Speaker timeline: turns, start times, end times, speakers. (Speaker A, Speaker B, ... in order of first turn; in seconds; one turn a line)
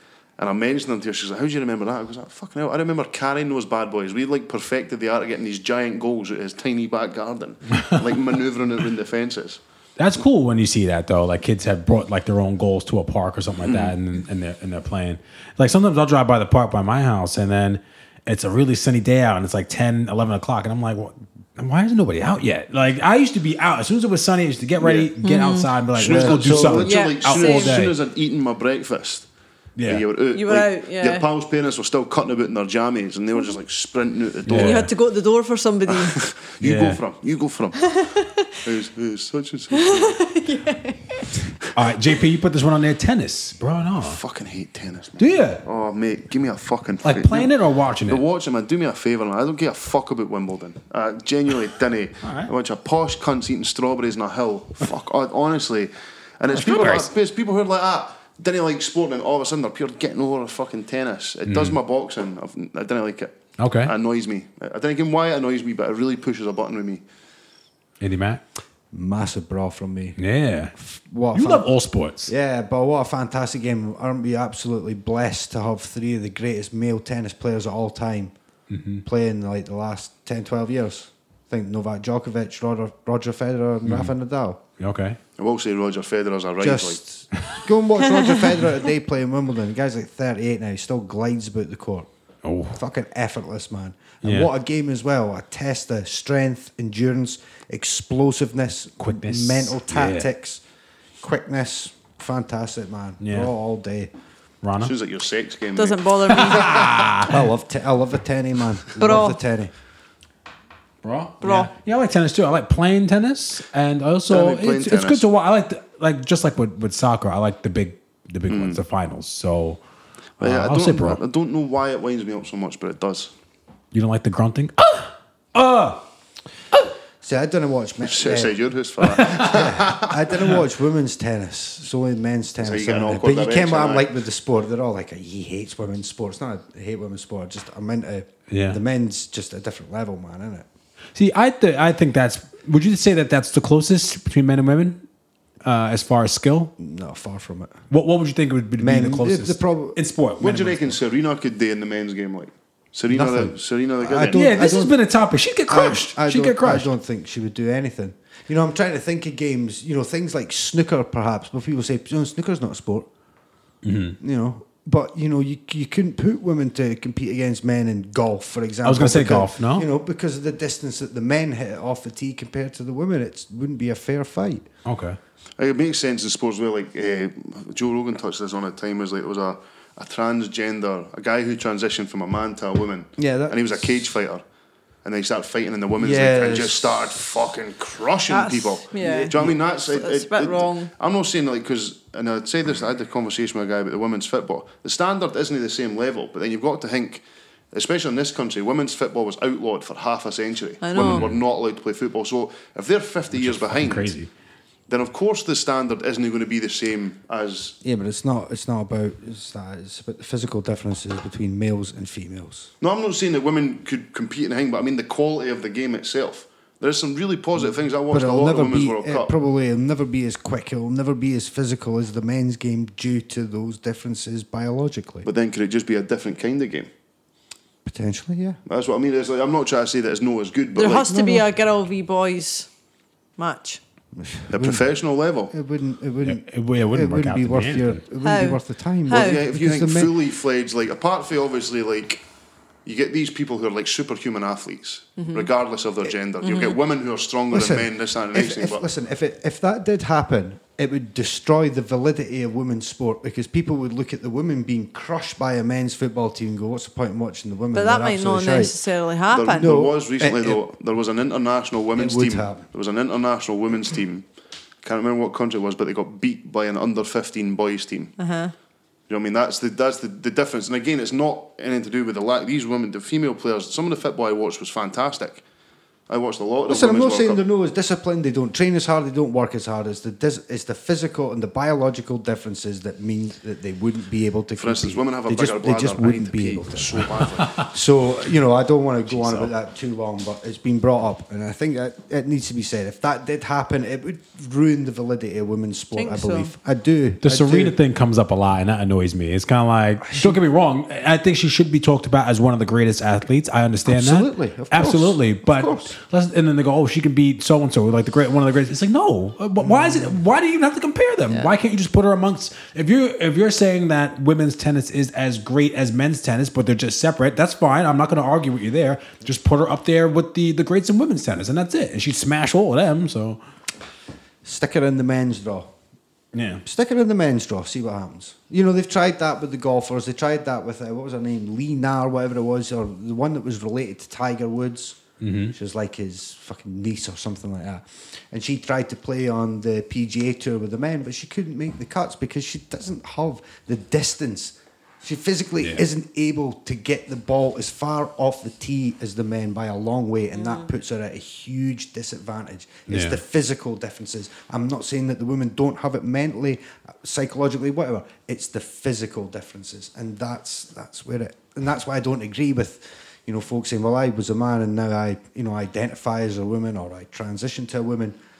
Speaker A: 0.4-9.6
Speaker B: 10.0-27.9
Speaker A: 13.6-13.9
Speaker A: 24.8-25.1
Speaker C: 25.2-25.7
Speaker A: 25.9-29.3
Speaker D: 26.0-26.9
Speaker C: 26.8-27.8
Speaker B: 29.8-30.0
Speaker A: 29.8-34.9
Speaker C: 30.3-31.2
Speaker B: 34.5-34.9
Speaker C: 34.5-36.2
Speaker A: 35.9-38.0
Speaker B: 36.6-37.0
Speaker C: 38.0-38.4
Speaker A: 38.6-40.2
Speaker C: 39.8-41.3
Speaker B: 41.7-44.2
Speaker A: 44.0-47.5
Speaker B: 45.2-45.6
Speaker B: 47.0-48.2
Speaker A: 48.1-67.0
Speaker B: 52.2-52.5
Speaker B: 56.5-57.1
Speaker B: 61.5-61.8
Speaker B: 63.6-63.9
Speaker B: 68.0-68.4
Speaker D: 68.9-70.2
Speaker B: 70.2-70.8
Speaker D: 70.8-71.7
Speaker B: 71.3-72.3
Speaker D: 72.2-78.3
Speaker B: 78.7-79.0
Speaker D: 79.0-84.6
Speaker B: 83.8-84.1
Speaker B: 84.8-85.2
Speaker A: 85.4-87.0
Speaker D: 86.6-92.1
Speaker B: 92.4-92.8
Speaker D: 92.7-100.6
Speaker B: 94.2-94.5
Speaker B: 99.0-100.3
Speaker D: 101.2-104.1
Speaker B: 103.2-103.5
Speaker B: 104.6-104.9
Speaker A: 104.8-106.7
Speaker C: 105.8-107.1
Speaker B: 106.3-107.4
Speaker D: 107.3-109.7
Speaker C: 109.0-109.4
Speaker B: 111.0-119.8
Speaker C: 111.4-111.7
Speaker A: 114.3-115.2
Speaker A: 118.5-118.8
Speaker B: 120.4-121.2
Speaker A: 120.4-123.3
Speaker B: 123.9-126.0
Speaker D: 127.2-128.6
Speaker A: 128.0-130.2
Speaker B: 129.2-129.5
Speaker D: 129.3-140.7
Speaker A: 132.6-134.1
Speaker B: 138.5-138.8
Speaker B: 141.1-145.0
Speaker B: 145.6-146.7
Speaker D: 146.8-147.8
Speaker B: 147.9-150.9
Speaker D: 148.8-150.0
Speaker A: 150.4-154.7
Speaker D: 153.1-154.9
Speaker B: 154.3-156.9
Speaker D: 155.7-163.1
Speaker B: 163.8-164.2
Speaker D: 164.2-174.7
Speaker B: 168.8-169.9
Speaker B: 174.8-175.2
Speaker A: 175.6-184.4
Speaker D: 183.2-183.9
Speaker A: 185.0-204.1
Speaker D: 186.0-187.2
Speaker C: 188.3-189.3
Speaker C: 189.9-190.9
Speaker C: 200.8-201.3
Speaker B: 201.0-201.4
Speaker B: 203.3-204.3
Speaker A: 204.9-207.8
Speaker D: 207.8-212.7
Speaker A: 212.8-219.3
Speaker D: 218.1-225.3
Speaker A: 225.2-226.9
Speaker D: 227.8-228.6
Speaker A: 228.7-231.2
Speaker C: 230.8-232.7
Speaker D: 231.1-231.4
Speaker C: 233.4-233.8
Speaker D: 234.1-234.9
Speaker A: 234.5-235.5
Speaker D: 235.5-240.1
Speaker B: 236.2-238.0
Speaker C: 238.2-239.4
Speaker A: 239.1-242.2
Speaker A: 242.8-248.8
Speaker C: 245.2-245.5
Speaker C: 246.4-246.8
Speaker D: 247.5-258.7
Speaker C: 257.7-259.7
Speaker A: 259.3-264.2
Speaker D: 259.5-260.6
Speaker D: 261.9-262.6
Speaker A: 264.8-268.1
Speaker C: 268.2-268.5
Speaker A: 269.1-275.4
Speaker A: 276.1-277.4
Speaker D: 276.7-297.7
Speaker A: 284.6-287.6
Speaker B: 287.4-287.7
Speaker B: 289.1-289.5
Speaker C: 295.9-296.5
Speaker B: 297.2-323.4
Speaker D: 300.0-300.4
Speaker D: 303.9-305.9
Speaker D: 309.6-310.1
Speaker D: 324.4-325.7
Speaker B: 326.3-326.6
Speaker D: 326.6-335.0
Speaker B: 335.2-335.5
Speaker D: 335.5-368.2
Speaker C: 350.3-350.7
Speaker B: 352.9-353.2